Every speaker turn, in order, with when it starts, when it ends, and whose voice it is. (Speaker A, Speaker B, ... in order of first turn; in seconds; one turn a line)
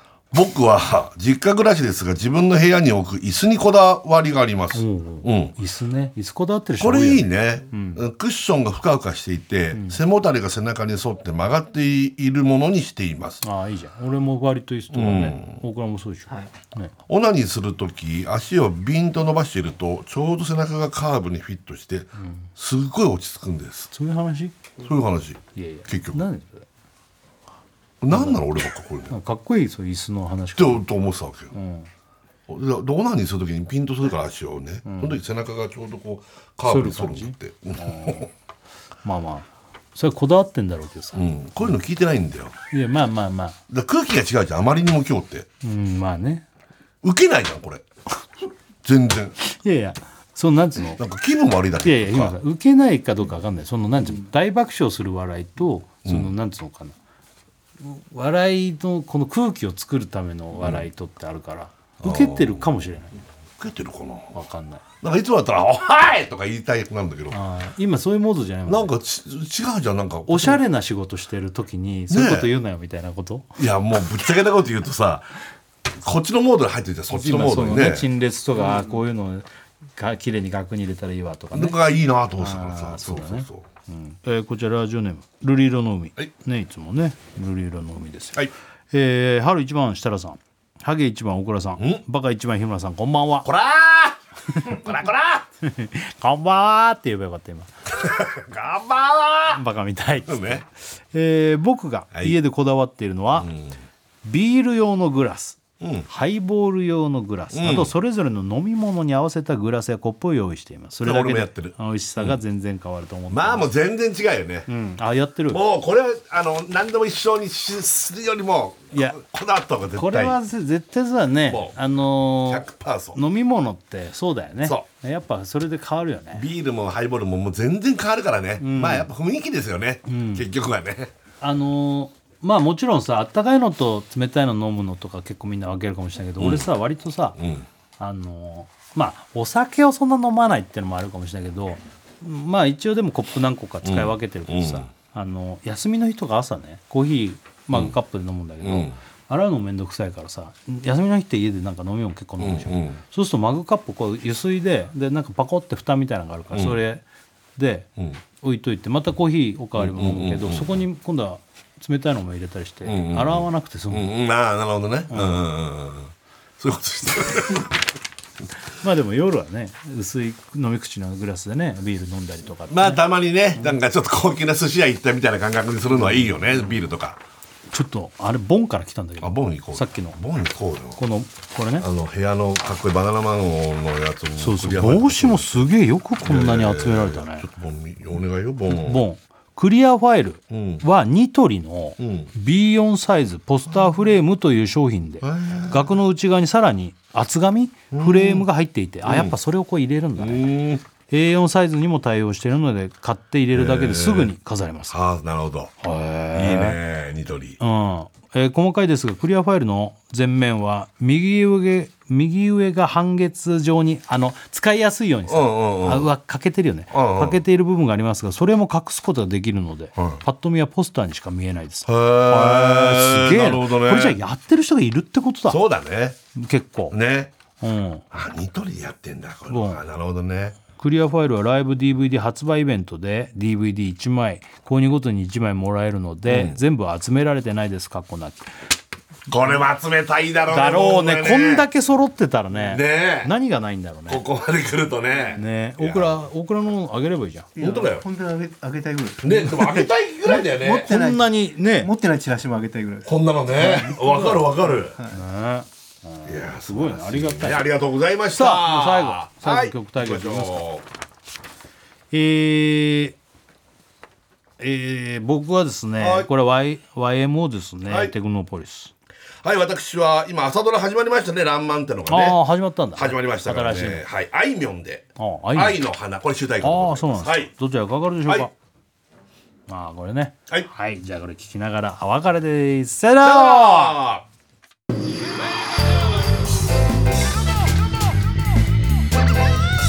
Speaker A: 0.3-5.5
Speaker B: 4.7-8.0
Speaker A: 6.8-13.4
Speaker B: 9.7-10.0
Speaker B: 13.4-16.9
Speaker A: 14.9-15.6
Speaker A: 17.1-23.9
Speaker B: 22.2-22.5
Speaker B: 23.9-24.6
Speaker A: 24.8-26.2
Speaker B: 25.6-26.7
Speaker A: 28.0-29.2
Speaker B: 28.1-28.4
Speaker B: 29.1-30.9
Speaker A: 30.6-31.5
Speaker B: 31.5-31.9
Speaker A: 32.5-38.3
Speaker B: 34.9-35.2
Speaker B: 36.6-38.3
Speaker B: 39.0-41.8
Speaker A: 41.1-42.6
Speaker B: 42.7-43.6
Speaker A: 43.7-45.5
Speaker B: 45.6-46.5
Speaker A: 47.0-47.8
Speaker A: 48.8-49.4
Speaker B: 49.4-51.0
Speaker A: 51.0-52.4
Speaker B: 51.8-57.0
Speaker A: 56.0-56.3
Speaker B: 57.8-63.1
Speaker A: 62.0-62.7
Speaker A: 63.6-64.3
Speaker B: 64.3-64.8
Speaker A: 65.0-67.4
Speaker B: 67.3-68.9
Speaker A: 68.7-70.6
Speaker B: 70.3-73.5
Speaker A: 72.1-72.5
Speaker A: 73.6-75.3
Speaker A: 76.0-78.1
Speaker B: 77.1-81.8
Speaker A: 81.5-83.7
Speaker B: 82.4-88.4
Speaker B: 88.9-93.5
Speaker A: 93.5-95.5
Speaker B: 95.6-97.7
Speaker A: 97.9-99.6
Speaker B: 99.5-103.5
Speaker A: 100.3-100.7
Speaker A: 103.4-103.8
Speaker B: 104.2-113.7
Speaker A: 105.8-106.1
Speaker A: 107.5-107.9
Speaker A: 111.0-112.4
Speaker A: 113.3-114.7
Speaker B: 114.7-115.6
Speaker A: 115.5-120.4
Speaker B: 120.0-126.5
Speaker A: 121.5-121.8
Speaker A: 122.4-123.2
Speaker A: 126.3-131.1
Speaker B: 128.6-129.1
Speaker B: 130.1-130.5
Speaker B: 131.4-137.4
Speaker A: 136.4-136.7
Speaker A: 137.4-137.7
Speaker B: 138.0-157.0
Speaker A: 143.8-144.9
Speaker A: 148.6-149.0
Speaker A: 152.4-153.0
Speaker A: 156.5-156.8
Speaker B: 157.6-157.9
Speaker B: 158.4-164.1
Speaker A: 159.8-160.8
Speaker A: 162.9-167.8
Speaker B: 165.1-165.4
Speaker B: 168.8-173.0
Speaker A: 172.7-177.2
Speaker B: 177.7-180.2
Speaker A: 179.2-181.0
Speaker B: 181.0-181.9
Speaker A: 181.8-185.7
Speaker B: 184.4-187.5
Speaker A: 186.2-189.0
Speaker B: 188.7-200.5
Speaker A: 190.5-190.8
Speaker A: 192.0-192.3
Speaker A: 195.2-195.9
Speaker A: 197.9-198.5
Speaker A: 199.1-199.3
Speaker A: 200.2-200.8
Speaker B: 201.1-205.0
Speaker A: 203.5-204.3
Speaker A: 204.9-205.7
Speaker B: 205.8-206.8
Speaker A: 206.3-207.6
Speaker B: 207.6-225.6
Speaker A: 215.3-216.1
Speaker A: 216.9-217.4
Speaker A: 221.9-224.2
Speaker A: 225.5-226.2
Speaker B: 226.3-227.0
Speaker A: 226.9-227.3
Speaker B: 227.6-228.1
Speaker A: 228.1-230.6
Speaker B: 229.5-229.8
Speaker B: 230.8-238.5
Speaker A: 236.3-236.6
Speaker A: 239.3-241.7
Speaker B: 240.5-244.2
Speaker A: 242.6-243.3
Speaker A: 244.1-246.2
Speaker B: 245.3-247.5
Speaker C: 247.6-255.2
Speaker A: 247.6-248.1
Speaker A: 249.2-250.9
Speaker B: 250.6-251.9
Speaker A: 253.1-255.0
Speaker B: 253.6-253.9
Speaker B: 255.1-257.6
Speaker A: 256.2-260.9
Speaker B: 258.3-260.6
Speaker B: 262.1-263.2
Speaker B: 264.6-268.9
Speaker A: 266.0-266.3
Speaker A: 267.9-268.1
Speaker A: 269.4-272.4
Speaker B: 272.1-274.1
Speaker A: 272.9-277.5
Speaker B: 275.2-275.8
Speaker B: 276.6-278.5
Speaker B: 279.7-283.9
Speaker A: 283.2-284.2